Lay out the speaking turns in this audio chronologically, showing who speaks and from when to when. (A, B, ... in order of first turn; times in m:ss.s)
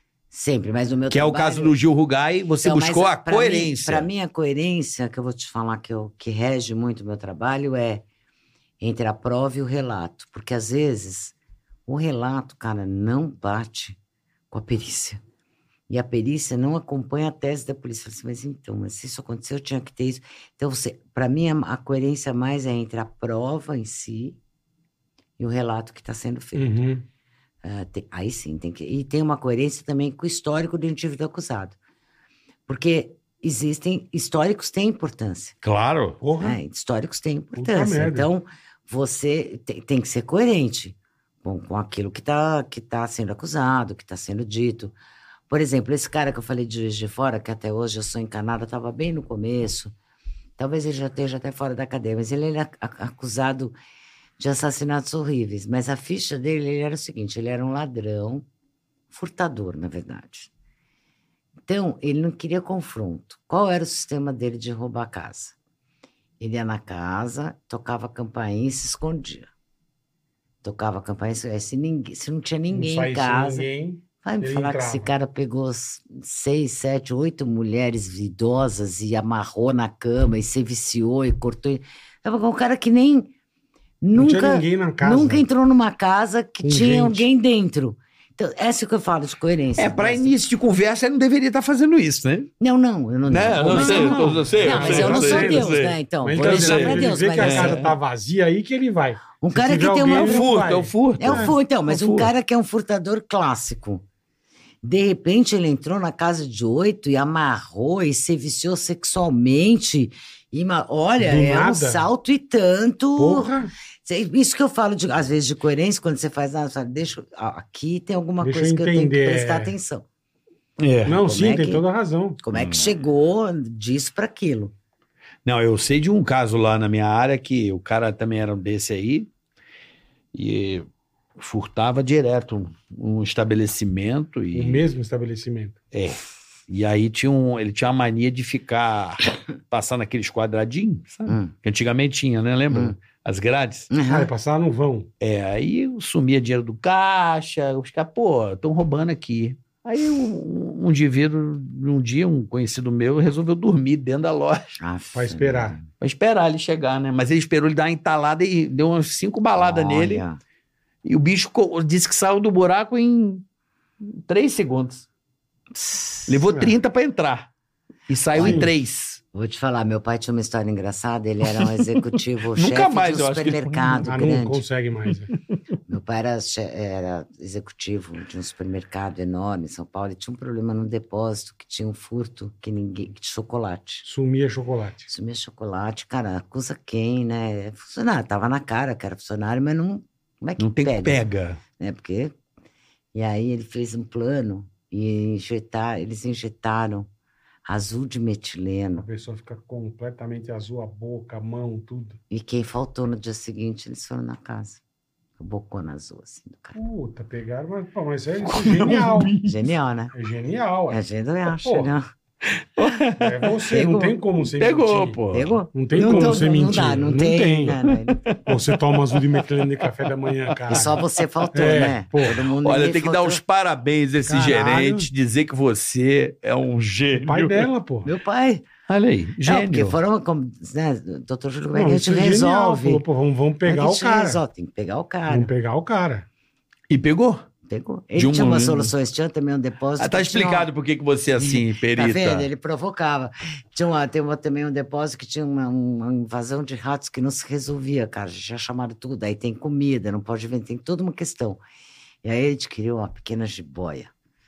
0:00.3-0:01.8 A
0:01.1-0:04.1 B
0:02.6-0:08.0 A
0:08.8-0:11.3 A
0:11.9-0:14.0 A
0:14.5-0:15.2 A
0:15.9-0:24.4 A
0:25.4-0:26.9 A
0:26.5-0:27.0 C
0:27.6-0:31.8 A
0:32.7-0:35.6 A
0:35.6-0:36.2 B
0:36.2-0:36.6 C
0:36.4-0:44.9 A
0:37.6-0:38.3 C
0:45.5-0:49.9 A
0:50.6-0:53.7 A
0:54.4-0:58.4 A
0:59.1-1:00.5 A
1:01.7-1:05.5 A
1:06.4-1:09.5 A
1:10.6-1:13.7 A
1:12.7-1:15.1 C
1:14.2-1:23.3 A
1:24.0-1:30.4 A
1:24.1-1:25.4 C
1:26.6-1:27.3 C
1:29.8-1:32.5 B
1:32.6-1:37.8 A
1:33.3-1:37.9 B
1:33.5-1:41.5 C
1:39.4-1:40.5 A
1:40.1-1:42.3 B
1:41.2-1:44.0 A
1:44.8-1:53.5 A
1:51.2-1:52.1 C
1:53.2-1:53.7 C
1:54.0-2:00.0 A
1:58.4-1:59.7 C
2:00.8-2:01.2 B
2:01.0-2:02.4 C
2:01.2-2:01.8 A
2:02.4-2:04.7 A
2:02.5-2:02.9 B
2:05.4-2:09.3 B
2:10.3-2:10.9 B
2:11.4-2:14.8 B
2:14.5-2:15.8 C
2:15.9-2:23.9 B
2:21.3-2:21.5 A
2:22.7-2:23.0 A
2:23.9-2:24.3 A
2:24.0-2:25.1 C
2:25.2-2:34.8 B
2:34.8-2:35.8 A
2:35.1-2:35.8 C
2:36.0-2:40.2 B
2:39.6-2:40.4 A
2:41.0-2:43.4 B
2:44.0-2:45.0 B
2:45.8-2:46.3 A
2:46.3-2:47.5 B
2:48.1-2:49.2 B
2:48.3-2:48.7 A
2:48.4-2:48.7 C
2:49.3-2:54.6 A
2:51.4-2:54.3 B
2:54.0-2:55.3 C
2:55.9-3:04.0 A
3:04.0-3:05.1 C
3:05.1-3:11.2 A
3:10.6-3:11.6 B
3:11.8-3:12.3 A
3:13.1-3:17.1 A
3:17.6-3:19.1 A
3:19.0-3:22.2 C
3:22.3-3:24.8 A
3:25.4-3:26.8 A
3:26.7-3:29.4 C
3:28.4-3:29.7 B
3:29.4-3:30.1 A
3:30.1-3:31.0 C
3:30.9-3:32.1 A
3:31.6-3:31.9 C
3:32.4-3:33.5 B
3:33.2-3:35.2 C
3:33.7-3:34.2 A
3:34.6-3:36.9 B
3:35.3-3:38.2 A
3:35.7-3:37.8 C
3:37.9-3:39.5 B
3:38.4-3:42.4 C
3:40.4-3:47.7 B
3:40.7-3:43.4 A
3:44.2-3:45.1 C
3:47.1-3:48.1 C
3:48.0-3:48.7 A
3:48.9-3:50.0 B
3:49.4-3:53.0 A
3:51.7-3:54.4 C
3:53.6-3:55.5 A
3:55.3-3:56.2 C
3:56.9-3:57.4 B
3:57.7-4:00.7 A
3:58.1-3:58.9 B
4:00.0-4:02.5 B
4:01.4-4:11.6 A
4:12.2-4:14.1 A